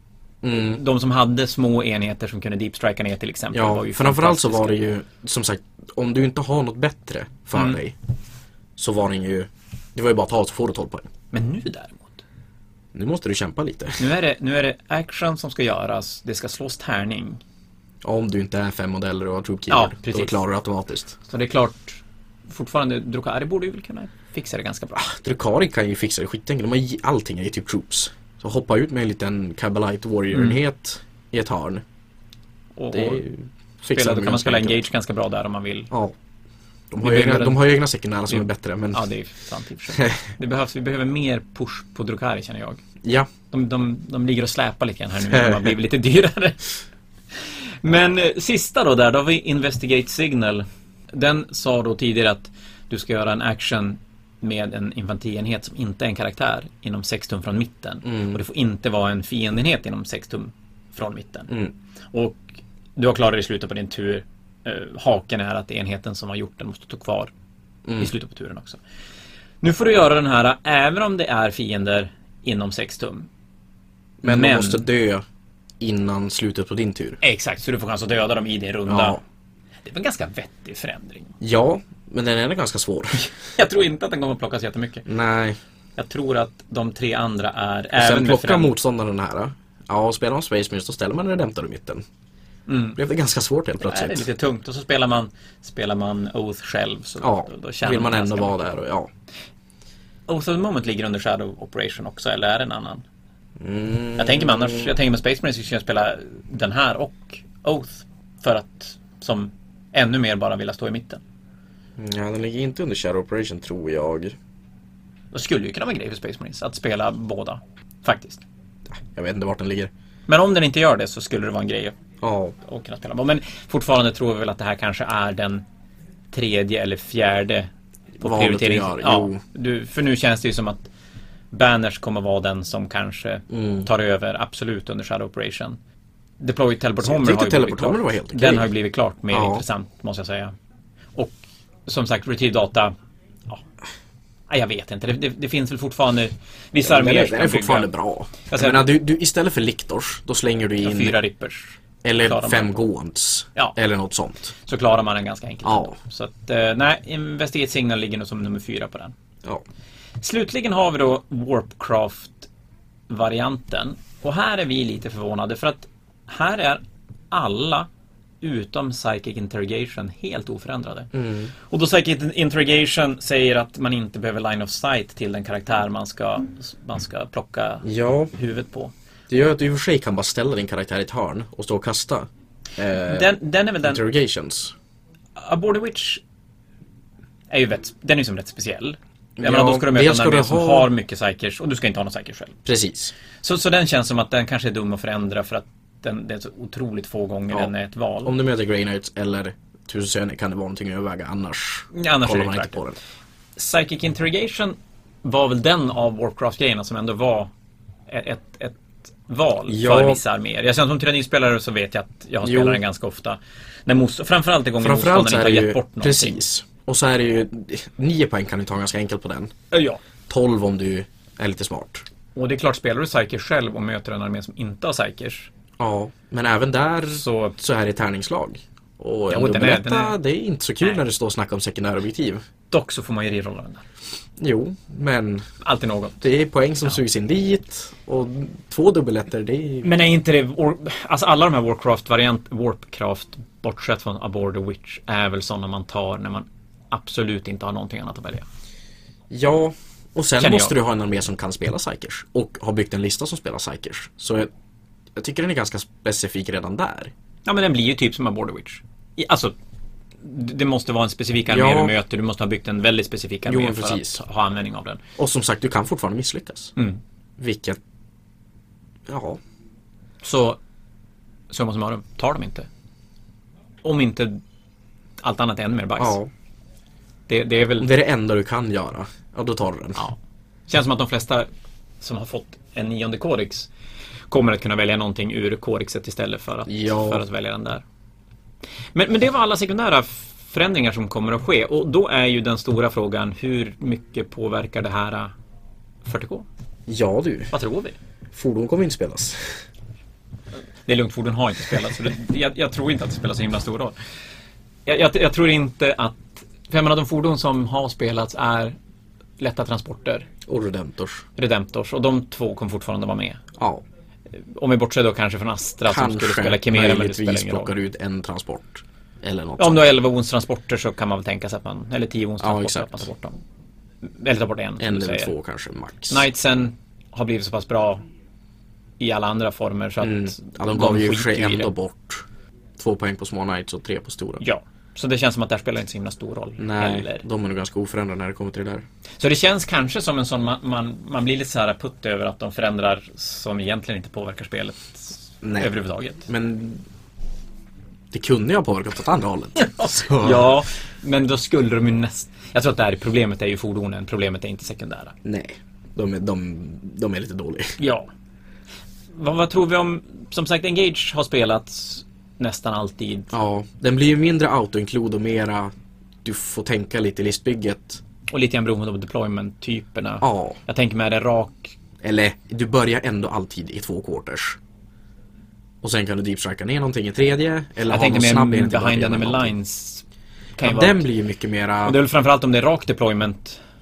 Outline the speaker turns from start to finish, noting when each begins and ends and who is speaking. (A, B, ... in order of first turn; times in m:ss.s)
0:00.4-0:00.8 A
0:00.6-0:04.8 B
0:03.5-0:08.0 A
0:08.8-0:11.1 A
0:11.3-0:12.2 B
0:12.9-0:14.0 A
0:14.0-0:17.4 B
0:18.0-0:21.2 A
0:19.7-0:20.4 B
0:21.3-0:25.1 B
0:24.9-0:31.8 A
0:30.3-0:30.6 B
0:32.8-0:33.2 B
0:32.9-0:34.8 A
0:33.9-0:35.9 B
0:36.9-0:39.0 A
0:37.0-0:37.6 B
0:38.3-0:42.8 B
0:43.0-0:43.3 A
0:43.5-0:46.7 B
0:45.3-0:45.7 A
0:47.4-1:01.5 B
0:58.0-0:58.4 A
1:02.1-1:07.3 B
1:08.0-1:08.8 B
1:09.6-1:13.3 B
1:14.2-1:15.2 A
1:14.2-1:14.8 B
1:15.8-1:17.2 A
1:17.2-1:19.2 B
1:18.9-1:19.2 A
1:19.8-1:21.3 B
1:21.4-1:23.3 A
1:23.4-1:25.1 B
1:25.0-1:25.6 A
1:26.0-1:28.7 B
1:27.9-1:32.0 A
1:32.7-1:33.0 B
1:33.0-1:34.3 A
1:33.8-1:38.8 B
1:37.2-1:39.1 A
1:40.3-1:43.0 B
1:43.6-1:44.9 A
1:44.2-1:51.2 B
1:52.0-1:54.4 A
1:55.3-1:58.4 B
1:59.0-1:59.9 A
2:00.3-2:02.0 B
2:02.2-2:02.5 A
2:02.6-2:05.6 B
2:06.3-2:10.9 B
2:08.2-2:09.4 A
2:11.5-2:15.8 B
2:13.5-2:13.9 A
2:16.4-2:20.5 B
2:17.0-2:18.7 A
2:19.3-2:19.6 A
2:21.2-2:22.9 B
2:24.5-2:27.9 B
2:26.8-2:31.2 A
2:28.5-2:28.8 B
2:30.8-2:32.8 B
2:32.0-2:34.5 A
2:34.6-2:39.1 B
2:35.6-2:35.9 A
2:40.2-2:42.5 B
2:43.1-2:47.9 B
2:48.4-2:58.9 B
2:51.1-2:51.5 A
2:57.8-2:58.3 A
2:59.3-3:04.7 A
3:03.0-3:04.0 B
3:05.4-3:06.2 B
3:07.5-3:12.6 B
3:09.4-3:10.9 A
3:12.6-3:13.1 A
3:13.4-3:18.3 B
3:18.2-3:23.0 A
3:21.9-3:22.8 B
3:23.6-3:27.5 B
3:28.1-3:36.4 B
3:29.7-3:30.2 A
3:32.4-3:32.8 A
3:34.8-3:39.5 A
3:39.7-3:40.0 B
3:40.3-3:42.0 A
3:42.3-3:45.5 B
3:45.8-3:52.4 A
3:47.1-3:47.6 B
3:49.3-3:50.2 B
3:52.7-3:53.8 B
3:54.4-3:55.4 A
3:55.6-3:56.2 B
3:56.2-3:59.9 A
3:59.8-4:08.4 B
4:09.3-4:14.5 A
4:10.4-4:10.8 B
4:15.2-4:17.1 A
4:17.4-4:19.5 B
4:20.2-4:25.0 B
4:21.5-4:21.9 A
4:23.4-4:24.2 A
4:25.2-4:26.7 A
4:27.4-4:27.8 A
4:29.1-4:29.4 A
4:30.2-4:30.6 B
4:31.5-4:32.7 B
4:33.8-4:34.4 B
4:35.2-4:36.2 B
4:36.0-4:36.3 A
4:37.3-4:37.9 B
4:37.8-4:40.0 A
4:40.7-4:41.5 B
4:42.0-4:43.7 B
4:44.3-4:47.8 B
4:46.7-4:47.2 A
4:48.9-4:55.3 B
4:56.0-4:56.4 B
4:56.9-4:57.5 A
4:57.5-4:58.0 B
4:58.3-4:59.5 A
5:00.9-5:03.9 B
5:04.8-5:08.7 B
5:09.4-5:10.3 B
5:10.4-5:11.2 A
5:11.4-5:13.4 B
5:13.6-5:13.8 A
5:14.3-5:17.7 B
5:15.8-5:19.8 A
5:19.6-5:23.4 B
5:22.4-5:23.0 A
5:24.0-5:25.3 B
5:24.8-5:26.2 A
5:26.1-5:28.0 B
5:29.0-5:31.7 B
5:30.0-5:32.2 A
5:32.8-5:34.4 A
5:34.4-5:37.2 B
5:36.6-5:38.8 A
5:39.2-5:46.3 B
5:45.4-5:45.7 A
5:46.3-5:46.8 A
5:48.1-5:50.5 A
5:49.6-5:55.1 B
5:55.2-5:57.8 A
5:57.8-5:58.1 B
5:59.2-6:03.3 B
6:03.3-6:05.7 A
6:06.2-6:08.0 A
6:08.3-6:11.8 B
6:10.2-6:10.6 A
6:12.0-6:14.6 A
6:15.8-6:19.5 A
6:17.9-6:20.0 B
6:20.6-6:21.0 B
6:20.6-6:22.0 A
6:21.8-6:23.6 B